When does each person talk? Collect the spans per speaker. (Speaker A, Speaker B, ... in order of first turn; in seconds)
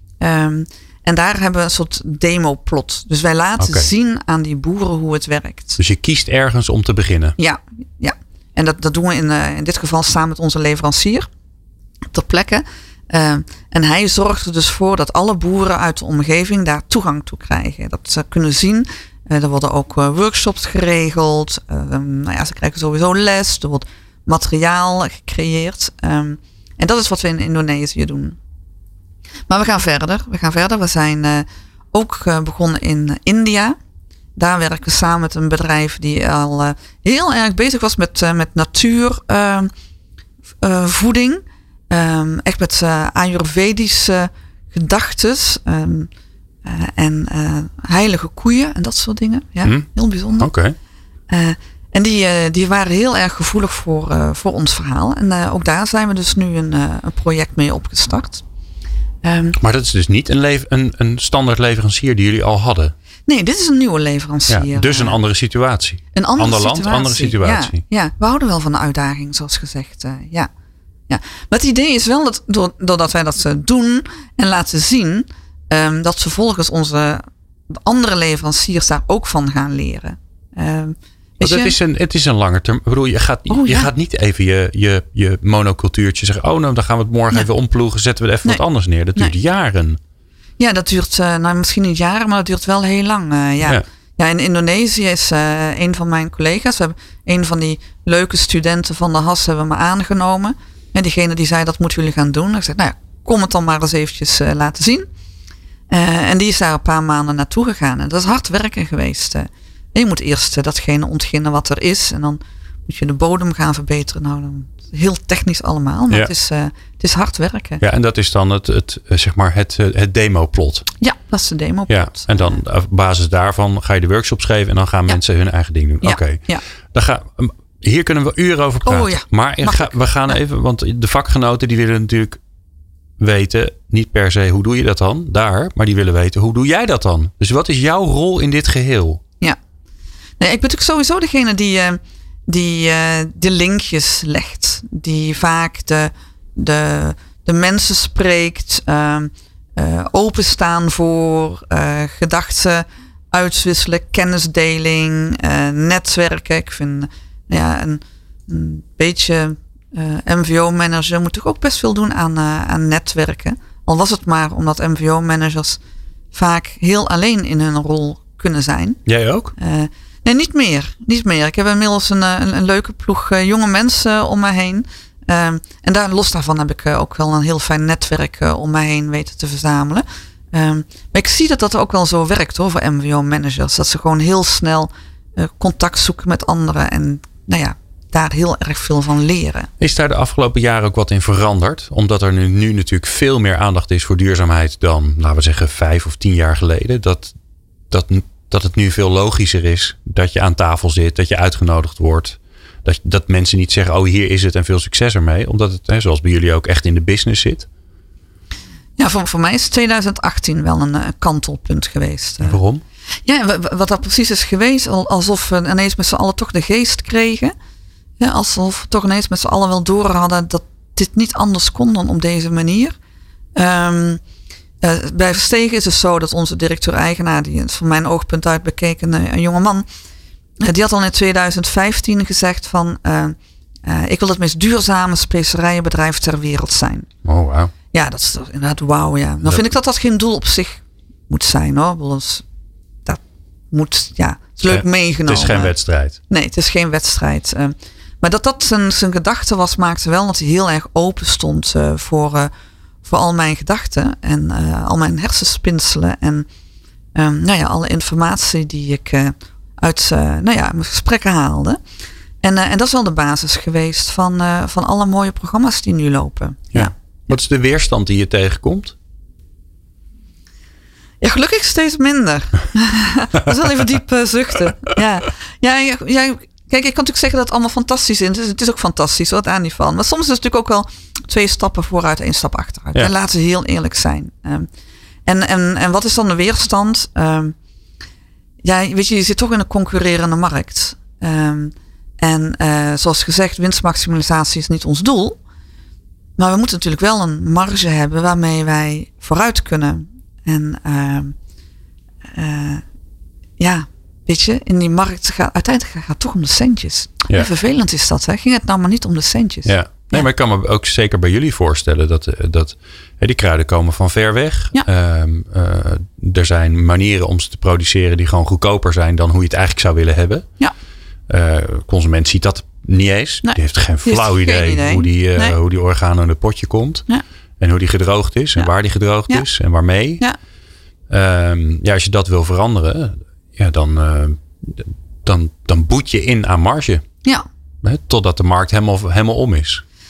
Speaker A: 0.2-5.8, 7.4-11.3, 12.1-28.4, 29.5-33.8, 34.4-39.7, 40.6-46.1, 46.6-50.5, 51.3-58.4, 59.2-59.6, 63.3-65.2, 66.1-70.5, 71.1-81.8, 83.5-83.9, 90.6-105.1, 105.9-117.8, 121.0-122.6, 126.0-126.6, 128.9-130.3, 140.4-165.8, 166.3-169.0, 169.6-189.7, 209.0-212.6, 213.3-217.6, 218.2-222.9, 223.6-224.2, 224.8-229.9, 230.6-237.1, 237.9-242.4, 243.1-245.8, 246.3-252.5, 253.0-256.5, 257.1-261.8, 262.4-266.9, 271.2-284.7, 285.3-287.6, 288.6-295.4, 296.4-301.4, 302.4-302.8, 303.6-310.3, 323.4-325.6
Speaker B: 3.6-3.9, 5.8-7.4, 50.4-50.8, 59.6-62.9, 64.5-67.8, 81.4-90.0, 117.8-120.9, 121.9-126.4, 126.9-132.4, 133.2-139.2, 169.1-169.5, 189.8-197.3, 197.9-207.7, 212.4-212.8, 237.2-237.7, 244.7-246.2, 266.7-268.9, 309.7-320.5, 321.3-327.1, 327.6-330.2, 331.1-337.0, 337.8-339.8